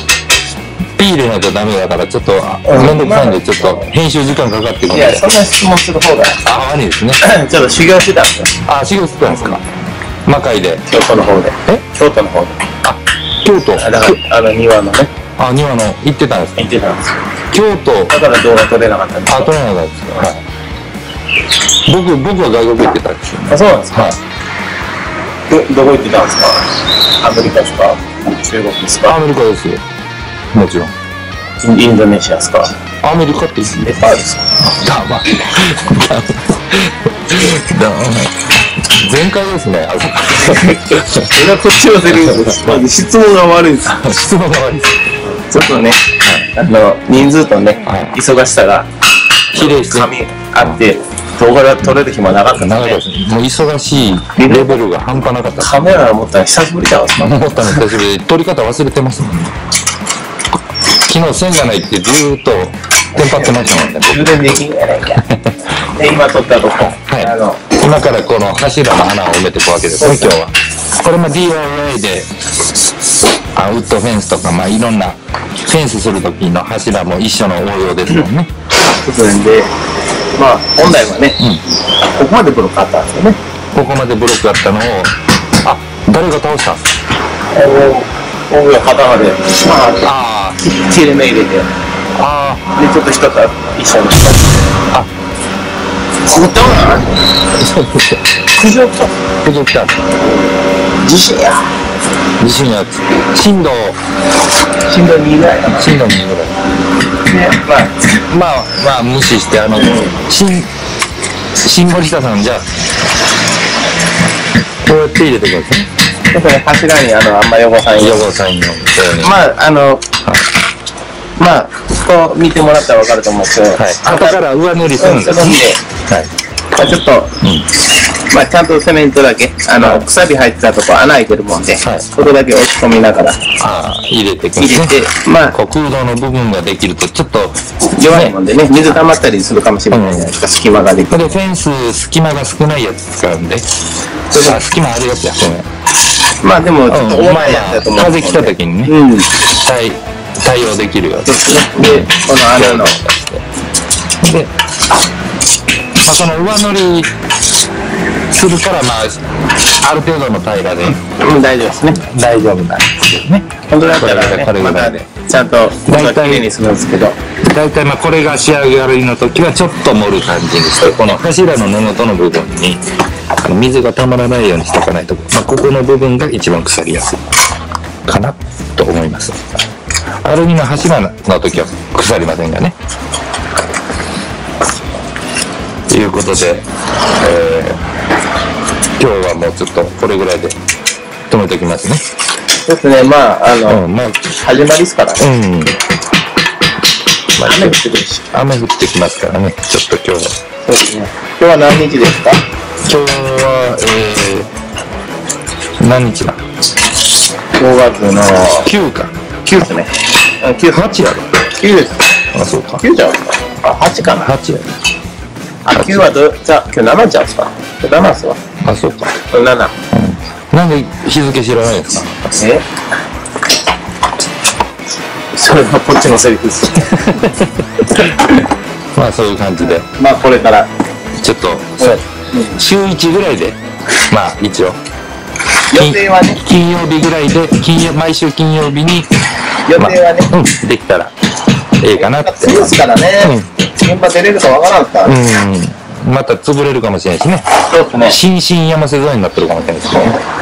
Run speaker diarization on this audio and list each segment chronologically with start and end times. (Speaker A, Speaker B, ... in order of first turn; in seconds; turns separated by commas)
Speaker A: 1.0-5.3, Speaker B: 2.6-3.9, Speaker B: 4.9-6.4, Speaker A: 6.4-7.2, Speaker B: 7.2-8.5, Speaker A: 8.7-9.6, Speaker A: 10.2-10.8, Speaker B: 10.9-12.6, Speaker A: 12.8-14.2, Speaker B: 13.8-15.1, Speaker A: 15.4-16.7, Speaker B: 16.6-17.2, Speaker A: 17.5-18.2, Speaker B: 18.1-19.5, Speaker A: 19.2-20.4, Speaker A: 21.9-24.2, Speaker B: 23.5-24.2, Speaker B: 25.5-26.7, Speaker B: 27.2-29.2, Speaker A: 29.0-29.8, Speaker A: 30.5-30.9, Speaker B: 31.6-32.7, Speaker A: 33.0-34.0, Speaker B: 33.8-34.5, Speaker A: 34.6-41.5, Speaker B: 40.4-44.0, Speaker A: 42.1-42.9, Speaker A: 43.9-45.0, Speaker B: 45.5-48.9, Speaker A: 46.2-46.5, Speaker A: 47.9-48.2, Speaker A: 49.5-50.8, Speaker B: 49.5-53.0, Speaker A: 52.5-56.0, Speaker B: 54.4-54.8, Speaker B: 55.6-57.8, Speaker A: 57.2-59.5, Speaker A: 61.0-64.5, Speaker B: 63.2-65.3, Speaker A: 65.2-65.7, Speaker B: 65.8-67.6, Speaker A: 66.8-72.4, Speaker B: 70.0-70.4, Speaker A: 73.5-78.5, Speaker B: 79.0-79.7, Speaker B: 80.4-81.4, Speaker B: 82.2-83.4, Speaker A: 83.7-86.8, Speaker B: 87.5-91.7, Speaker A: 90.0-90.6, Speaker A: 92.2-92.6, Speaker B: 92.8-94.5, Speaker B: 96.3-97.1, Speaker A: 97.5-98.2, Speaker B: 98.6-99.1, Speaker A: 99.4-100.0, Speaker B: 101.0-101.7, Speaker A: 102.4-104.0, Speaker B: 104.9-105.9, Speaker A: 105.7-106.7, Speaker B: 107.2-108.0, Speaker A: 108.3-110.7, Speaker B: 109.7-110.2, Speaker A: 111.6-112.7, Speaker A: 114.8-115.9, Speaker B: 116.3-118.3, Speaker A: 117.9-119.4, Speaker B: 119.2-120.0, Speaker A: 120.2-120.5, Speaker B: 121.4-124.4, Speaker A: 123.8-126.3, Speaker B: 125.0-125.8, Speaker B: 126.8-127.3, Speaker A: 127.4-127.7, Speaker B: 128.3-133.4, Speaker A: 129.8-130.1, Speaker A: 131.8-132.1, Speaker A: 133.6-135.0, Speaker B: 134.6-135.6, Speaker A: 135.5-138.3, Speaker B: 137.9-141.4, Speaker A: 139.9-140.3, Speaker A: 141.1-143.7, Speaker B: 144.3-144.6, Speaker A: 144.3-145.7, Speaker B: 146.4-149.3, Speaker A: 146.9-153.4, Speaker B: 151.2-153.0, Speaker A: 154.2-154.5, Speaker A: 156.0-157.1, Speaker A: 158.3-159.2, Speaker A: 159.8-161.0, Speaker B: 161.0-162.0, Speaker A: 161.9-165.1, Speaker B: 163.7-167.2, Speaker A: 165.8-166.5, Speaker A: 167.5-172.8, Speaker A: 173.4-177.2, Speaker A: 178.1-179.4, Speaker A: 180.2-182.8, Speaker A: 185.9-186.7, Speaker A: 187.2-187.8, Speaker A: 189.0-190.6, Speaker A: 191.3-192.0, Speaker B: 192.7-193.8, Speaker A: 193.7-194.2, Speaker B: 194.4-195.2, Speaker A: 195.2-195.8, Speaker A: 197.4-197.8, Speaker B: 197.4-198.2, Speaker A: 198.3-200.4, Speaker B: 200.6-202.4, Speaker A: 202.9-204.5, Speaker A: 205.8-206.4, Speaker B: 207.6-208.7, Speaker A: 208.6-209.1, Speaker B: 209.4-210.9, Speaker A: 210.7-211.4, Speaker B: 211.6-212.0, Speaker A: 212.3-212.8, Speaker B: 212.8-214.3, Speaker A: 214.0-214.8, Speaker B: 215.7-218.4, Speaker A: 215.7-216.1, Speaker A: 218.6-219.2, Speaker B: 219.3-219.7, Speaker A: 219.9-222.3, Speaker B: 222.3-222.6, Speaker B: 225.3-227.3, Speaker A: 228.9-229.9, Speaker B: 229.7-230.7, Speaker A: 231.2-233.6, Speaker B: 231.8-232.6, Speaker A: 234.1-234.8, Speaker B: 235.7-236.4, Speaker A: 235.7-239.1, Speaker B: 239.7-240.3, Speaker A: 239.8-241.1, Speaker A: 241.8-243.5, Speaker B: 241.9-245.2, Speaker A: 245.1-250.2, Speaker B: 247.7-248.2